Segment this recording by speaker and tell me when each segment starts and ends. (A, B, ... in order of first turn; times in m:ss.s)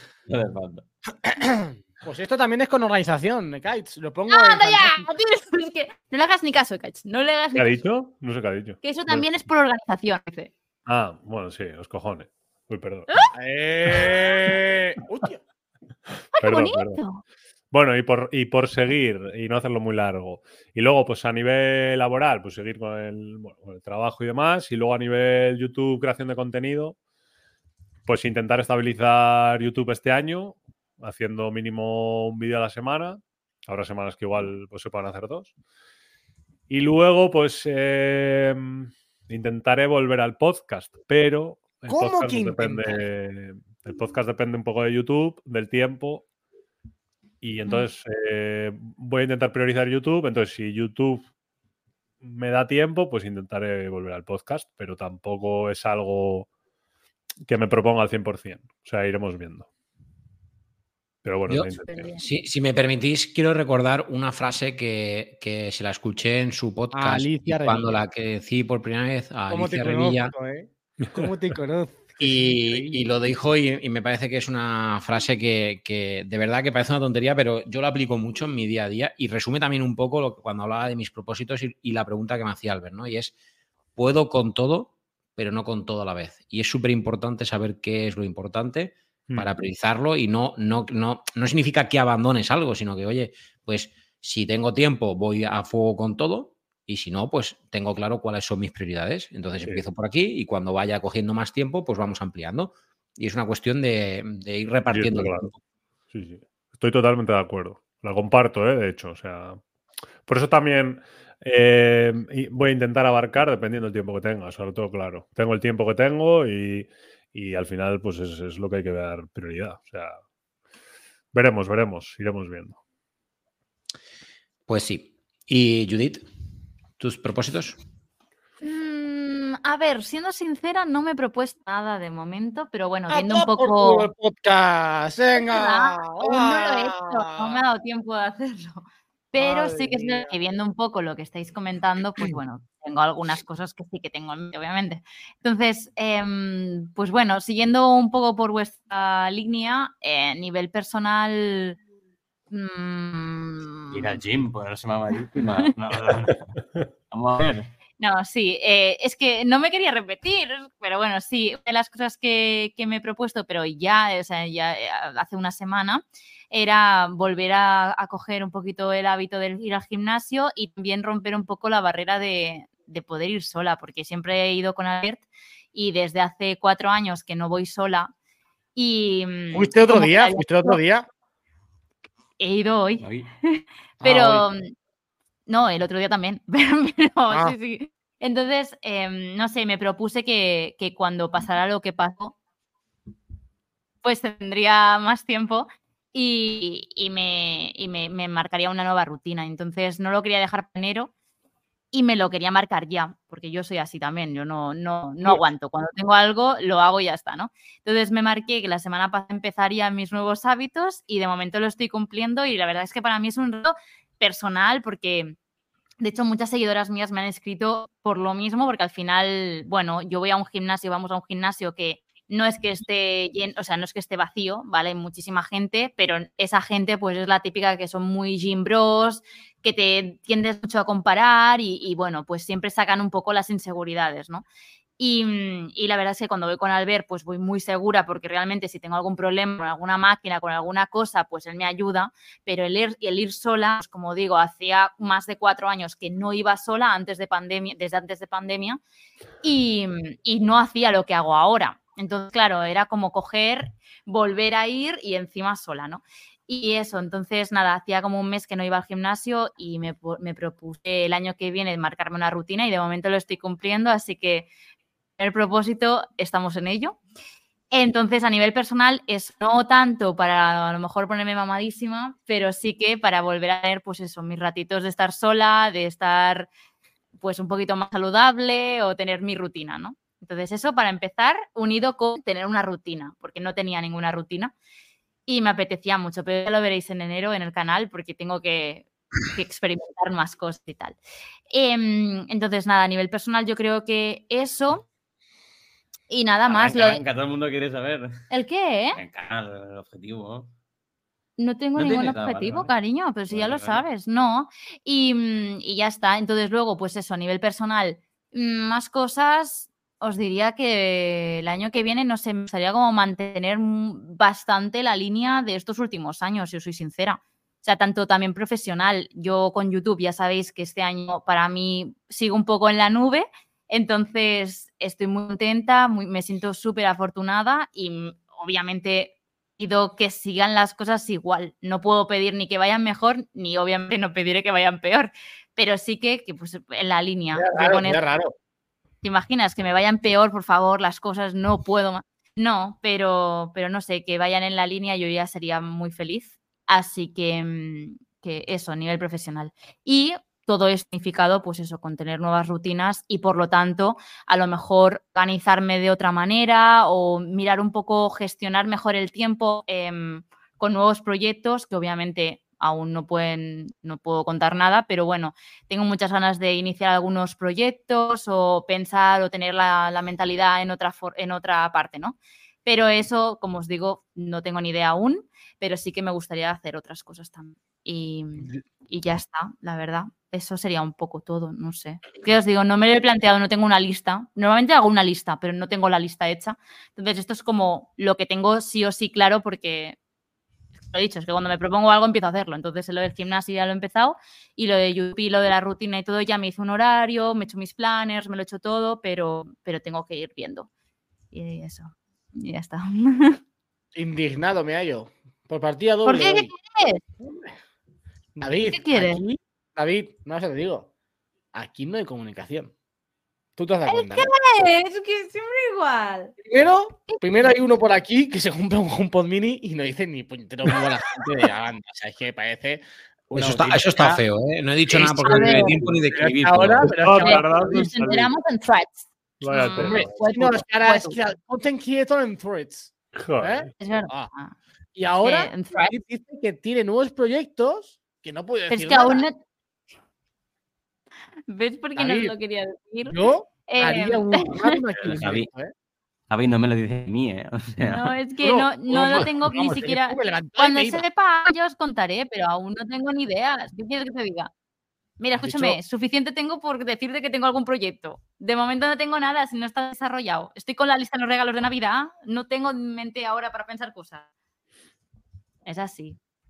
0:00.3-0:00.8 A
0:01.3-0:05.1 B
0:04.3-0:07.8 C
0:07.6-0:09.3 D
0:08.8-0:10.5 C
0:10.9-0:13.1 D
0:13.3-0:15.4 B
0:16.4-0:17.2 C
0:16.4-0:17.0 D
0:17.7-0:27.0 D
0:28.1-0:35.5 D
0:36.7-0:46.2 D
0:41.9-0:43.0 B
0:47.4-0:51.3 D
0:52.2-0:56.5 D
0:57.5-0:59.7 D
1:01.2-1:02.1 D
1:01.5-1:10.3 E
1:01.9-1:02.2 C
1:06.9-1:08.0 B
1:09.5-1:13.1 B
1:12.2-1:23.3 E
1:24.0-1:45.6 E
1:29.3-1:29.5 D
1:44.9-1:45.5 D
1:46.1-1:49.6 D
1:50.3-2:00.2 D
2:01.3-2:02.8 D
2:04.7-2:06.2 E
2:07.0-2:07.8 E
2:08.6-2:14.1 C
2:13.1-2:17.6 B
2:15.4-2:31.8 C
2:19.4-2:20.3 B
2:32.5-2:34.2 C
2:33.9-2:36.5 A
2:36.1-2:36.9 D
2:37.1-2:37.7 A
2:38.0-2:58.1 C
2:58.8-3:00.8 C
2:59.5-3:01.1 B
3:02.4-3:04.7 C
3:03.0-3:03.3 A
3:04.0-3:04.5 B
3:05.5-3:12.4 C
3:07.3-3:07.6 B
3:14.0-3:21.1 C
3:21.9-3:35.4 C
3:36.0-3:54.4 C
3:55.0-4:08.8 C
4:09.4-4:24.5 C
4:25.2-4:27.0 C
4:27.7-4:36.5 C
4:37.2-4:44.5 C
4:45.3-4:51.0 C
4:51.5-4:54.8 C
4:56.1-4:57.0 C
4:56.5-4:58.2 A
4:58.3-4:59.0 C
4:59.0-5:00.5 A
5:01.4-5:38.0 C
5:01.8-5:02.7 A
5:03.3-5:03.8 A
5:37.3-5:38.3 B
5:39.0-6:30.0 C
6:30.9-6:40.7 C
6:41.3-6:43.4 C
6:44.0-6:46.5 B
6:46.0-6:47.0 C
6:48.4-6:50.9 B
6:48.7-6:49.2 C
6:51.5-6:52.7 B
6:53.6-6:54.3 B
6:53.9-6:56.3 C
6:56.4-7:04.2 B
6:57.1-6:57.5 C
7:03.3-7:06.9 E
7:05.2-7:07.7 B
7:05.2-7:05.8 C
7:07.0-7:08.3 D
7:07.2-7:11.2 C
7:09.4-7:10.1 D
7:09.7-7:14.3 B
7:13.2-7:13.7 D
7:13.8-7:14.5 C
7:15.0-7:19.2 B
7:15.2-7:15.9 C
7:18.7-7:19.4 C
7:21.5-7:24.8 C
7:22.0-7:22.4 B
7:23.1-7:25.7 B
7:25.0-7:25.5 A
7:26.3-7:28.1 A
7:27.8-7:34.5 C
7:28.4-7:31.0 B
7:35.2-7:44.3 C
7:35.4-7:35.8 B
7:45.6-7:46.2 C